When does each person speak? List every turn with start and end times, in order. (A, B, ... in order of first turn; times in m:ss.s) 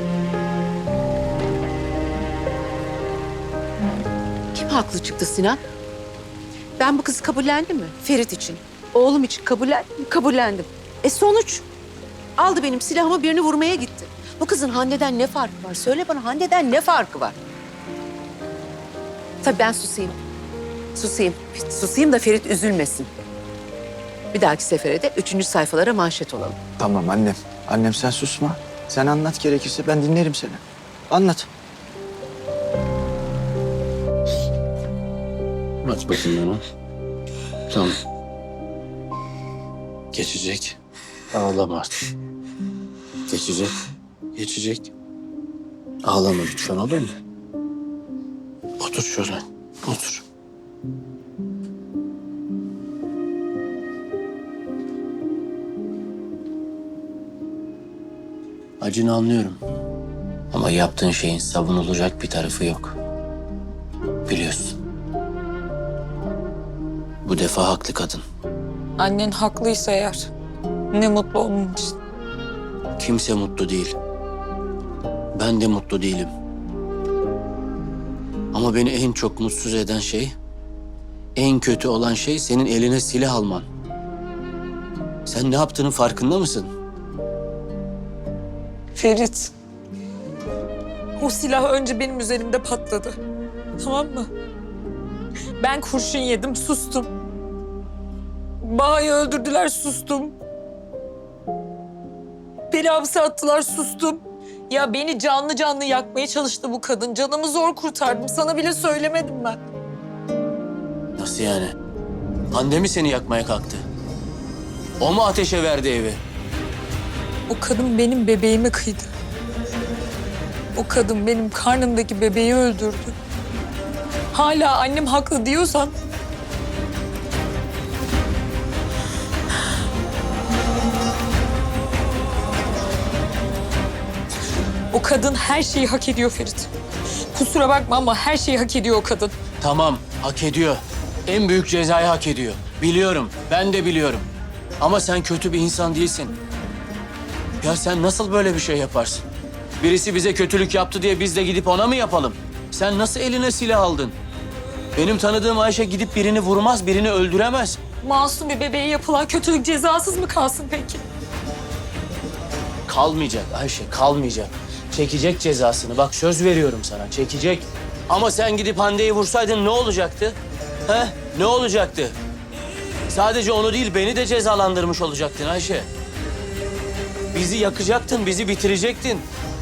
0:04.5-0:05.6 A
0:06.8-0:11.6 A
0:12.4-0:17.4 A
0:19.4-0:20.2 A
0:21.0-0:23.1 A
0:24.3-0:26.6 A
0:26.8-0:31.5 B
0:35.8-0:36.6 C
0:37.7-0:38.0 C
0:40.1-0:40.8 C
0:41.3-0:41.9 C
0:43.3-0:43.7 C
0:44.4-0:44.9 C
0:46.0-0:47.1 C
0:48.8-0:50.2 C
0:58.8-0:59.6 C
1:00.5-1:03.0 C
1:04.3-1:04.8 C
1:07.2-1:08.2 C
1:09.0-1:10.3 D
1:10.9-1:12.0 D
1:13.0-1:14.0 C
1:15.4-1:16.3 C
1:18.5-1:20.4 C
1:21.4-1:23.7 C
1:25.3-1:26.7 C
1:29.0-1:29.5 D
1:31.2-1:33.2 D
1:33.8-1:34.3 D
1:35.6-1:37.1 D
1:38.6-1:40.4 D
1:42.7-1:49.6 D
1:51.2-1:51.8 C
1:52.5-1:53.9 C
1:55.0-1:56.2 C
1:57.5-1:59.1 D
2:00.8-2:03.1 D
2:04.3-2:05.9 D
2:14.9-2:16.7 D
2:17.3-2:19.4 D
2:19.6-2:24.3 C
2:24.8-2:26.4 C
2:27.6-2:29.2 C
2:29.8-2:34.2 C
2:35.0-2:37.8 C
2:38.0-2:41.0 D
2:42.9-2:52.2 C
2:53.1-2:55.9 C
2:57.3-2:59.3 C